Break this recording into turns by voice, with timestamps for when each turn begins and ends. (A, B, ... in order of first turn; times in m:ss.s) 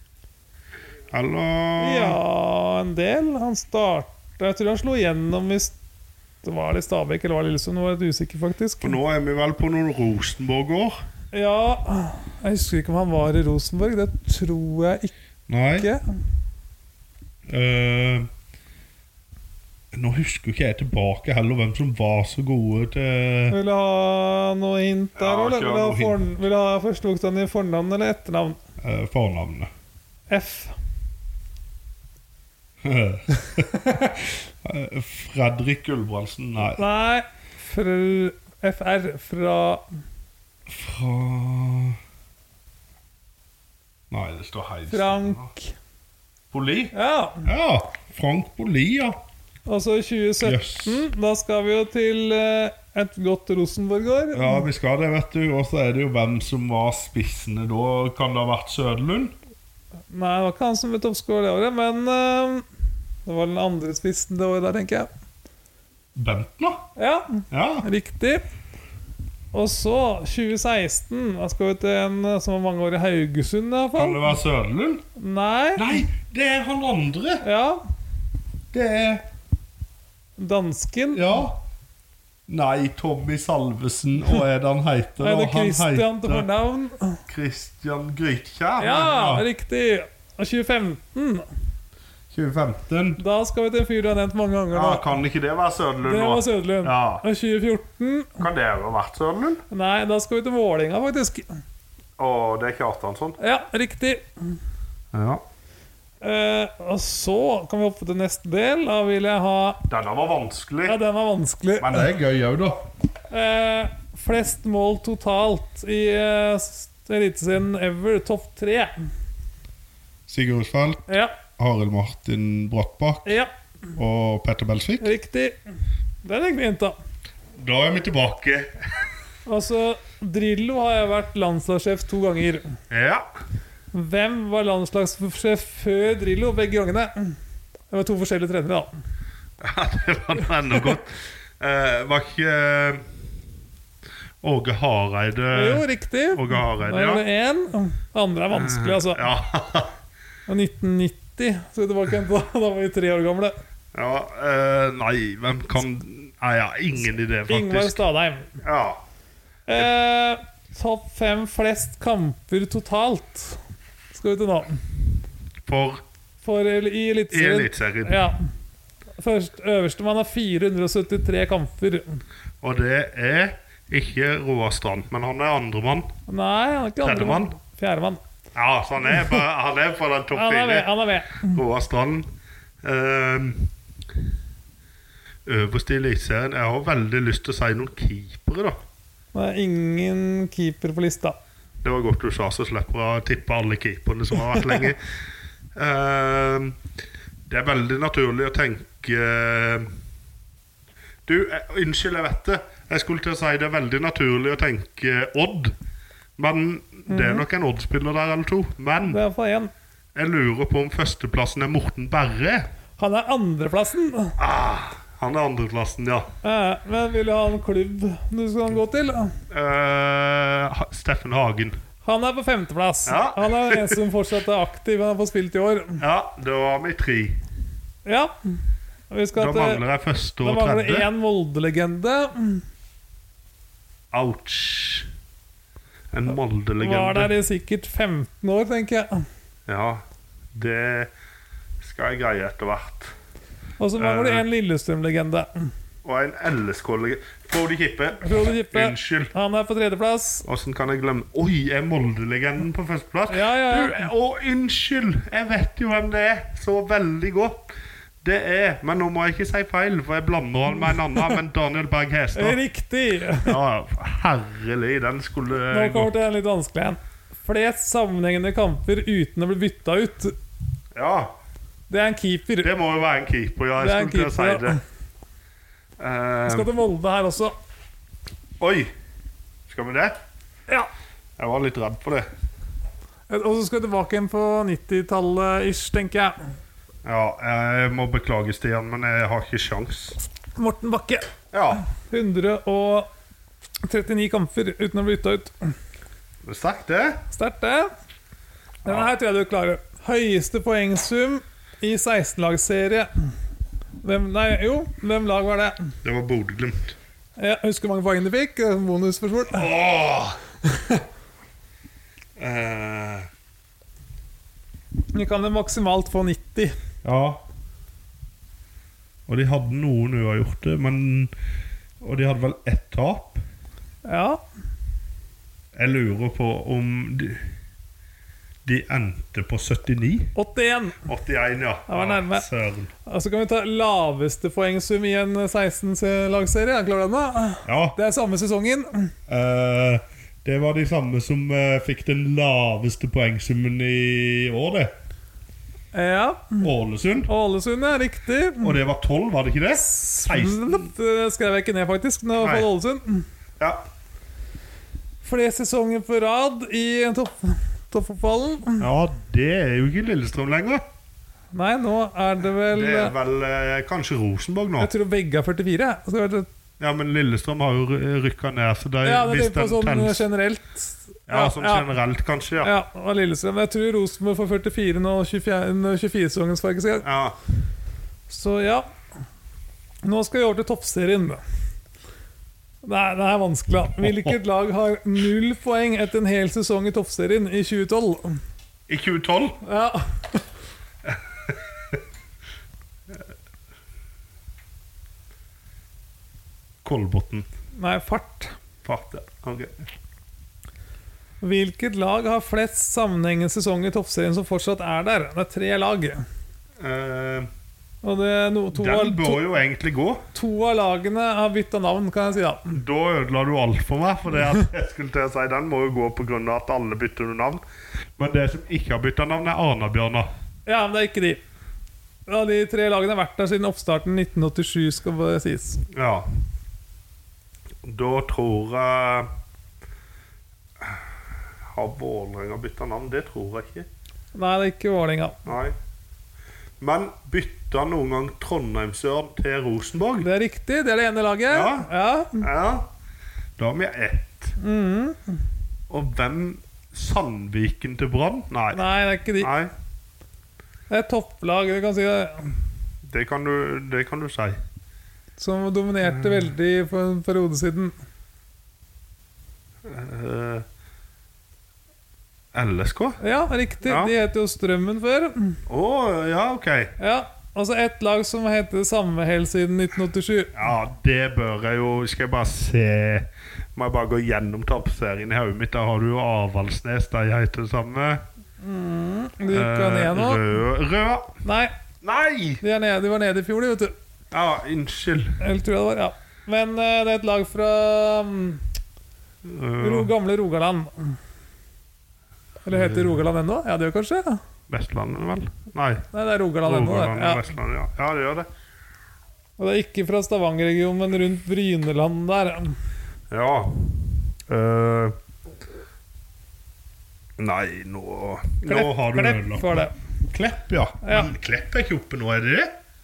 0:01.1-0:02.2 A
0:01.8-0:05.8 B
0:06.4-0:09.0 B
0:08.8-0:11.0 A
0:11.3-0:15.1 B
0:15.5-0:15.9 A
0:17.5-0:18.3 A
0:19.9-0:23.6 A
0:23.5-0:28.6 B
0:25.2-0:26.2 A
0:28.8-0:29.7 A
0:30.3-0:30.8 B
0:32.8-0:36.8 A
0:36.7-0:39.8 B
0:40.7-0:42.0 A
0:44.1-0:45.5 A
0:44.9-0:45.7 B
0:46.5-0:49.2 A
0:46.9-0:47.5 B
0:49.7-0:54.6 B
0:50.4-0:51.0 A
0:54.3-0:59.3 A
1:00.1-1:02.6 B
1:03.2-1:05.1 B
1:06.1-1:06.8 A
1:07.0-1:08.4 B
1:07.5-1:07.9 A
1:09.5-1:14.4 B
1:13.9-1:15.0 A
1:15.2-1:16.0 B
1:15.8-1:17.4 A
1:17.4-1:17.8 B
1:18.7-1:19.2 A
1:20.4-1:21.4 B
1:21.1-1:21.6 A
1:22.5-1:26.5 A
1:25.2-1:27.2 B
1:27.3-1:29.5 A
1:28.8-1:31.4 B
1:32.3-1:33.2 A
1:33.2-1:35.1 B
1:34.7-1:37.2 A
1:36.0-1:38.4 B
1:38.4-1:39.6 A
1:39.7-1:41.4 B
1:42.2-1:43.4 A
1:43.4-1:44.2 B
1:45.1-1:45.4 A
1:46.2-1:49.8 B
1:49.9-1:51.0 A
1:50.8-1:52.1 B
1:51.8-1:52.8 A
1:53.3-1:58.9 B
2:00.3-2:03.3 A
2:01.1-2:01.4 B
2:03.2-2:03.5 B
2:04.0-2:05.1 A
2:05.0-2:05.6 B
2:06.2-2:06.9 B
2:07.6-2:09.0 A
2:09.4-2:12.7 B
2:12.9-2:13.2 A
2:13.9-2:17.4 B
2:17.9-2:18.9 B
2:19.6-2:23.0 A
2:24.4-2:27.2 A
2:25.5-2:29.2 B
2:28.5-2:29.9 A
2:30.5-2:33.5 B
2:33.9-2:38.0 A
2:37.5-2:38.5 B
2:38.6-2:39.0 A
2:39.7-2:43.6 B
2:44.1-2:44.8 B
2:45.6-2:46.0 A
2:46.4-2:48.4 B
2:47.3-2:48.2 A
2:49.2-2:52.2 B
2:52.6-2:56.1 A
2:56.3-2:58.2 B
2:57.0-2:57.5 A
2:58.5-3:02.3 A
3:00.3-3:01.6 B
3:02.8-3:03.7 A
3:05.4-3:08.8 A
3:09.3-3:11.4 B
3:11.8-3:15.0 A
3:15.8-3:16.8 A
3:17.5-3:19.9 A
3:21.2-3:25.7 A
3:26.4-3:29.2 A
3:27.1-3:27.4 B
3:29.0-3:29.7 B
3:30.1-3:32.7 A
3:33.0-3:34.4 B
3:34.4-3:36.3 A
3:36.4-3:39.4 B
3:39.5-3:41.8 A
3:42.0-3:46.0 B
3:43.0-3:44.0 A
3:46.0-3:47.4 A
3:48.0-3:48.5 B
3:49.1-3:49.8 B
3:49.4-3:51.1 A
3:50.4-3:52.6 B
3:54.1-3:55.1 A
3:56.1-3:57.3 A
3:56.8-3:59.2 B
3:59.7-4:00.0 A
4:00.5-4:01.1 A
4:01.8-4:03.1 A
4:03.8-4:05.7 B
4:04.0-4:04.4 A
4:06.0-4:09.3 A
4:08.2-4:10.4 B
4:10.4-4:17.7 A
4:13.3-4:14.1 B
4:18.2-4:22.6 A
4:22.3-4:23.5 B
4:23.4-4:26.1 A
4:25.7-4:30.3 B
4:30.9-4:31.4 A
4:31.9-4:32.7 B
4:32.6-4:34.8 A
4:33.8-4:34.8 B
4:36.0-4:36.7 A
4:36.4-4:37.5 B
4:38.6-4:38.9 A
4:39.7-4:40.1 A
4:41.4-4:42.3 A
4:43.3-4:46.3 B
4:47.0-4:50.2 A
4:50.6-4:51.3 B
4:51.5-4:51.8 A
4:52.0-4:53.1 B
4:53.9-4:55.7 B
4:56.4-4:57.2 A
4:57.3-4:57.9 B
4:58.8-5:03.1 B
4:58.8-4:59.1 A
5:04.0-5:05.9 B
5:06.0-5:07.0 A
5:07.4-5:09.7 B
5:09.5-5:10.4 A
5:10.7-5:11.0 B
5:12.4-5:13.3 A
5:15.1-5:16.7 B
5:17.0-5:17.4 A
5:19.3-5:21.3 A
5:22.0-5:23.4 A
5:24.0-5:24.4 B
5:25.7-5:27.4 A
5:28.6-5:30.3 A
5:30.3-5:31.0 B
5:31.0-5:32.9 A
5:31.9-5:32.4 B
5:33.0-5:39.1 B
5:37.6-5:38.0 A
5:39.3-5:44.9 A
5:45.9-5:46.6 B
5:46.6-5:47.3 A
5:47.3-5:48.8 B
5:48.6-5:50.9 A
5:49.8-5:53.2 B
5:52.4-5:52.7 A
5:55.2-5:58.8 B
5:58.8-6:00.8 A
6:01.5-6:03.1 B
6:02.7-6:04.9 A
6:04.8-6:06.5 B
6:06.8-6:10.2 A
6:09.0-6:11.9 B
6:11.3-6:12.7 A
6:12.6-6:17.1 B
6:17.0-6:17.4 A
6:18.3-6:18.9 B
6:20.0-6:21.4 B
6:22.8-6:28.4 B
6:24.0-6:24.3 A
6:28.9-6:29.6 A
6:29.6-6:30.4 B
6:31.0-6:32.0 A
6:36.8-6:37.5 A
6:37.8-6:38.5 B
6:38.8-6:39.8 A
6:41.4-6:46.2 B
6:46.8-6:47.5 A
6:48.0-6:49.5 B
6:48.7-6:50.2 A
6:50.3-6:52.7 B
6:52.7-6:57.6 A
6:58.2-7:00.3 A
7:00.6-7:01.4 B
7:02.3-7:05.8 B
7:05.9-7:06.3 A
7:07.8-7:09.3 A
7:11.7-7:13.9 A
7:14.3-7:15.4 B
7:15.4-7:15.7 A
7:16.8-7:20.3 A
7:20.2-7:22.4 B
7:21.5-7:22.9 A
7:23.6-7:24.5 A
7:24.6-7:25.4 B
7:25.9-7:28.8 A
7:28.7-7:29.5 B
7:29.4-7:29.7 A
7:30.9-7:32.5 B
7:33.0-7:34.6 A
7:35.4-7:37.9 B
7:36.1-7:36.5 A
7:39.8-7:40.6 A
7:42.5-7:43.2 A
7:43.2-7:45.6 B
7:43.8-7:44.1 A
7:45.7-7:46.9 A
7:47.0-7:50.6 B
7:50.5-7:58.2 A
7:58.6-8:00.4 B
7:59.5-8:01.3 A
8:01.4-8:01.7 B
8:02.0-8:02.6 A
8:02.6-8:03.9 B
8:04.3-8:05.4 A
8:05.4-8:08.6 B
8:09.4-8:10.1 A
8:09.8-8:11.2 B
8:12.6-8:14.4 B
8:12.7-8:13.2 A
8:14.7-8:16.0 A
8:16.1-8:17.5 B
8:16.6-8:18.5 A
8:19.6-8:22.7 B
8:23.3-8:23.9 A
8:24.5-8:25.1 A
8:27.4-8:32.7 A
8:28.6-8:29.9 B
8:31.0-8:31.3 B